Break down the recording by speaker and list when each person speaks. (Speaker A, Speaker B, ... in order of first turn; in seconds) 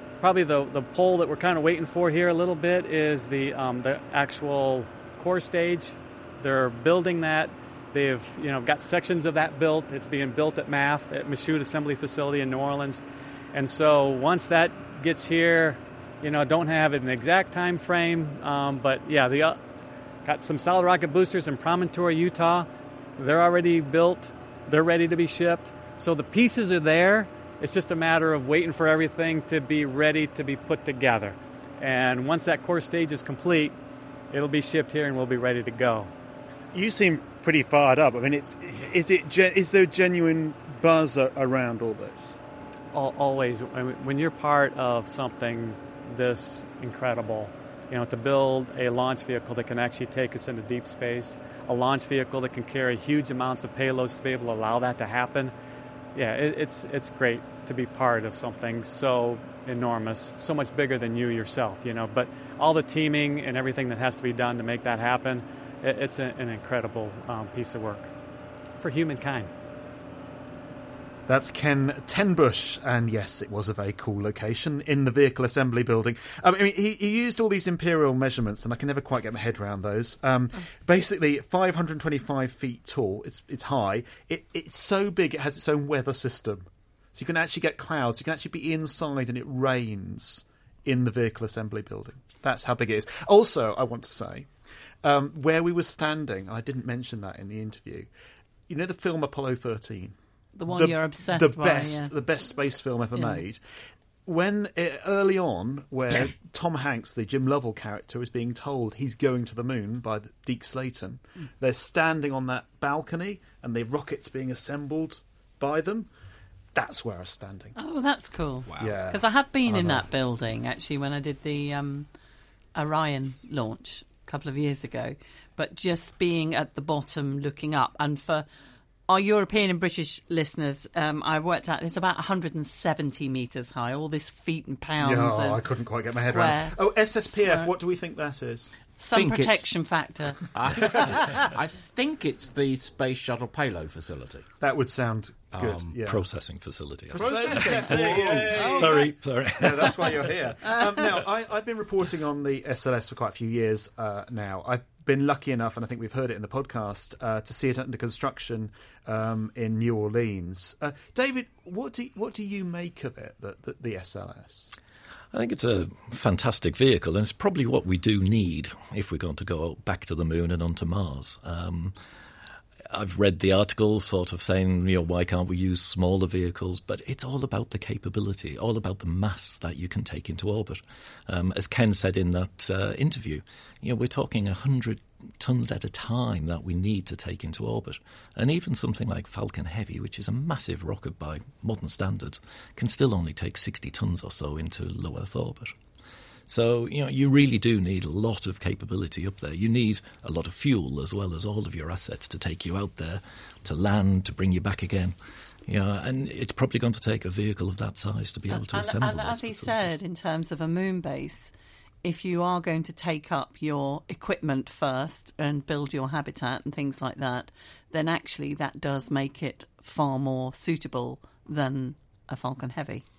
Speaker A: 0.2-13.0, 13.5-19.6, 20.2-33.8, 34.3-36.1, 42.9-55.5, 56.1-68.1, 68.8-69.5
Speaker B: 36.7-42.4, 71.3-94.5, 95.0-98.1, 98.7-100.2, 100.7-103.6, 104.3-116.1, 116.8-117.8, 118.8-120.0, 135.0-138.8, 144.6-146.2, 147.1-164.7
Speaker C: 100.6-102.1, 103.2-103.4, 117.8-122.1, 122.8-128.5, 129.1-137.7, 139.0-140.4, 148.6-149.1, 208.5-211.5, 212.0-223.0
Speaker D: 139.1-139.7, 140.5-144.5, 145.5-146.0, 147.2-148.6
Speaker E: 146.0-150.4, 165.3-171.9, 172.9-195.7, 196.5-205.2, 205.7-210.0